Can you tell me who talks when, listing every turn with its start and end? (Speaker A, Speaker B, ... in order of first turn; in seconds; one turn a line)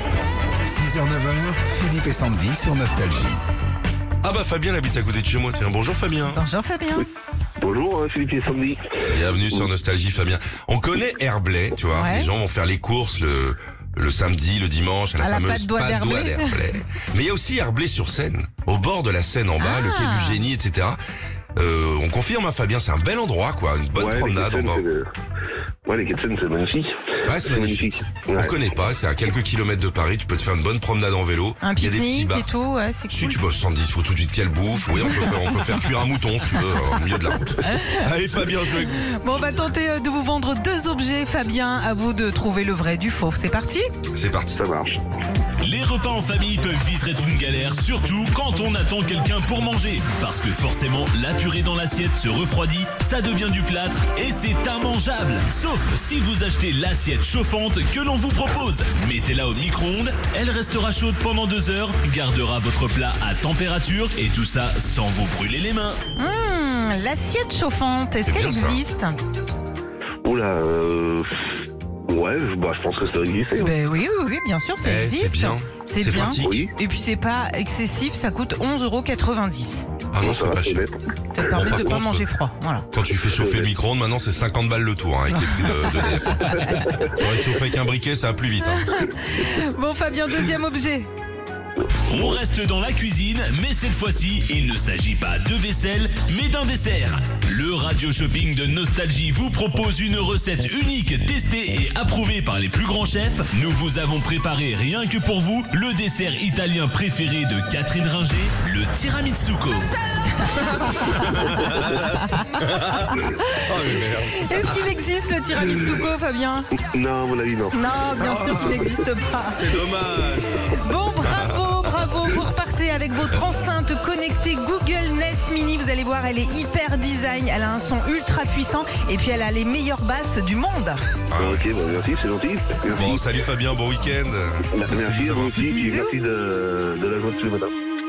Speaker A: 0.7-3.4
Speaker B: 4.2-6.4
Speaker C: 6.3-7.1
Speaker D: 7.6-9.7
Speaker B: 9.1-21.0
Speaker C: 11.9-12.3
Speaker C: 15.2-16.6
Speaker C: 19.6-20.4
Speaker B: 21.6-24.9
Speaker D: 23.9-25.1
Speaker D: 25.9-28.6
Speaker B: 27.3-32.5
Speaker C: 31.6-33.4
Speaker B: 33.1-39.2
Speaker C: 35.0-35.7
Speaker C: 37.6-38.1
Speaker C: 38.9-43.9
Speaker B: 44.1-44.6
Speaker D: 44.6-45.0
Speaker E: 45.6-66.0
Speaker C: 66.2-69.2
Speaker B: 68.3-68.8
Speaker D: 70.2-71.5
Speaker D: 72.1-73.7
Speaker C: 73.6-79.9
Speaker B: 74.8-76.7
Speaker D: 76.4-76.7
Speaker B: 80.1-80.9
Speaker D: 80.2-81.0
Speaker C: 81.3-82.9
Speaker B: 81.5-82.3
Speaker B: 82.9-88.9
Speaker D: 83.0-83.7
Speaker C: 85.3-87.2
Speaker D: 86.5-87.1
Speaker C: 88.7-91.1
Speaker E: 92.1-109.9
Speaker C: 110.4-111.5
Speaker B: 111.2-114.8
Speaker C: 112.2-112.5
Speaker C: 114.4-116.7
Speaker D: 116.9-117.8
Speaker C: 117.7-119.7
Speaker B: 118.2-118.8
Speaker B: 119.5-122.4
Speaker C: 120.8-131.1
Speaker B: 131.3-131.7
Speaker D: 131.4-133.4
Speaker B: 132.9-135.8
Speaker D: 134.7-137.7
Speaker C: 135.6-136.1